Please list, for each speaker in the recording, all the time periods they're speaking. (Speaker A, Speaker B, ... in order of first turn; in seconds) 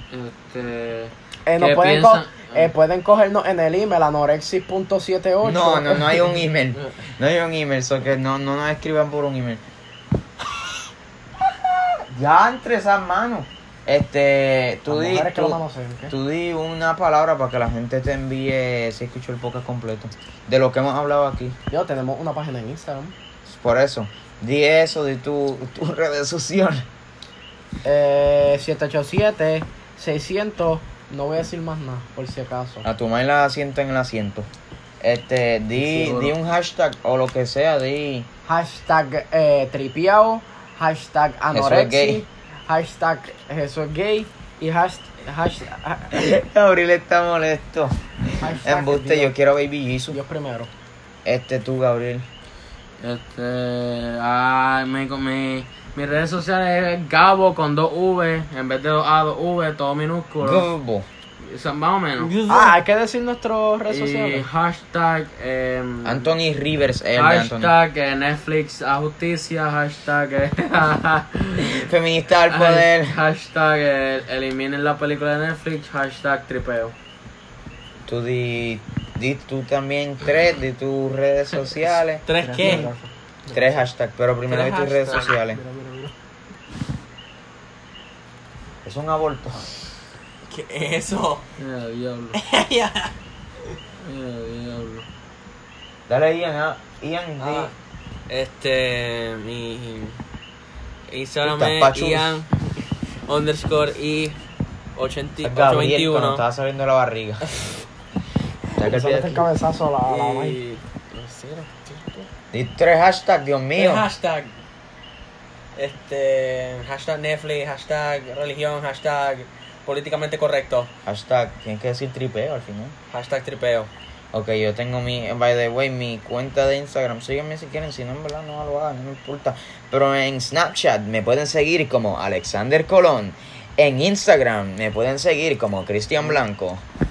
Speaker A: 0.1-2.7, 53.0-60.7, 61.4-62.4, 63.9-66.3, 67.2-71.9, 72.5-76.9, 91.6-92.4, 94.0-95.1
Speaker B: 1.5-6.4, 14.9-16.1, 21.7-23.1, 27.8-32.9, 35.8-36.3, 38.5-46.1, 48.4-49.3, 50.1-50.7, 62.5-64.4, 82.4-83.8, 85.5-86.1, 108.8-110.6
Speaker C: 5.4-9.6, 11.4-15.6, 16.1-21.6, 23.5-26.9, 32.8-34.5, 35.0-38.3, 41.5-42.2, 46.1-50.2, 51.2-52.3, 60.4-61.1, 66.0-67.7, 71.7-73.2, 78.1-82.8, 83.5-85.6, 88.8-89.7, 96.1-97.7, 101.4-102.4, 105.4-107.5, 108.8-109.5, 112.5-114.1, 121.1-123.0, 124.3-136.8
Speaker D: 62.2-62.7, 82.2-82.9, 84.5-85.3, 90.5-91.5, 92.3-93.1, 97.4-97.7, 98.3-100.2, 101.1-102.5, 103.3-104.4, 105.0-106.4, 110.1-112.3, 113.8-114.5, 115.8-120.9, 123.1-123.9